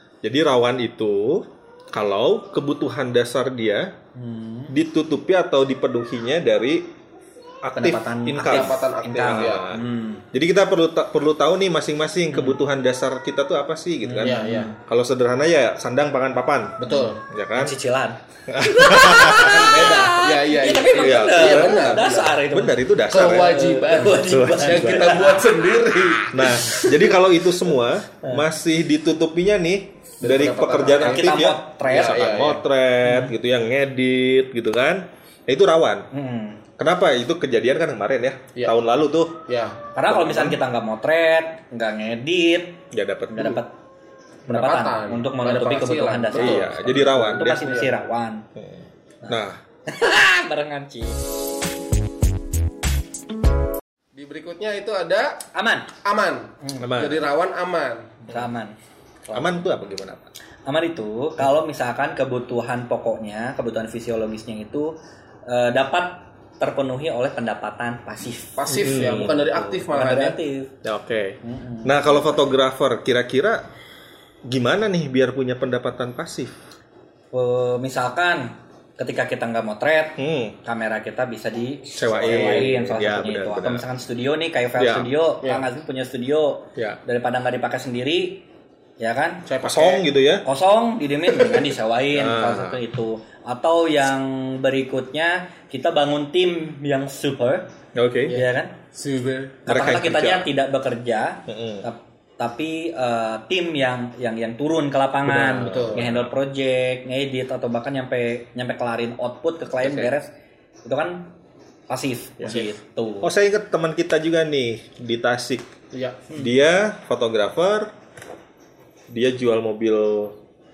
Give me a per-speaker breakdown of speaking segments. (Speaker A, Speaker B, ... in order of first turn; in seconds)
Speaker A: 0.2-3.9, 4.7-6.8, 7.6-16.8, 17.3-17.7, 18.5-19.8, 20.9-23.6, 24.3-25.2, 26.3-36.1, 36.8-39.4, 40.1-40.6, 42.9-43.6, 46.4-47.7, 48.5-49.6, 56.8-57.2, 59.3-60.3, 68.7-69.3, 70.8-73.6, 74.5-76.5, 80.2-80.5, 81.9-83.8, 84.8-85.1, 89.6-90.4, 91.3-92.8, 97.9-98.4, 99.7-100.5, 101.5-101.8, 105.2-106.3, 109.8-110.1, 112.4-112.7, 113.2-115.6, 116.3-117.9, 119.1-120.3
Speaker B: 4.1-4.7, 7.7-10.2, 12.3-12.6, 14.0-14.8, 16.8-22.7, 23.4-25.5, 31.0-32.4, 33.0-33.3, 36.1-36.6, 39.9-43.7, 44.5-48.5, 49.2-51.2, 55.5-55.9, 56.6-56.9, 58.3-58.8, 59.3-59.6, 60.6-64.9, 65.5-70.7, 71.4-72.5, 77.3-88.5, 89.0-89.5, 90.4-97.7, 98.3-98.7, 99.7-110.3, 110.8-111.3, 111.9-113.3
Speaker C: 8.4-9.7, 14.2-14.7, 16.8-17.2, 19.5-22.4, 23.1-27.0, 30.2-31.3, 31.8-32.6, 39.5-39.8, 44.5-47.9, 54.1-55.4, 56.0-58.2, 68.6-70.4, 82.2-82.7, 89.5-90.0, 98.3-99.6, 105.6-106.1, 115.9-116.2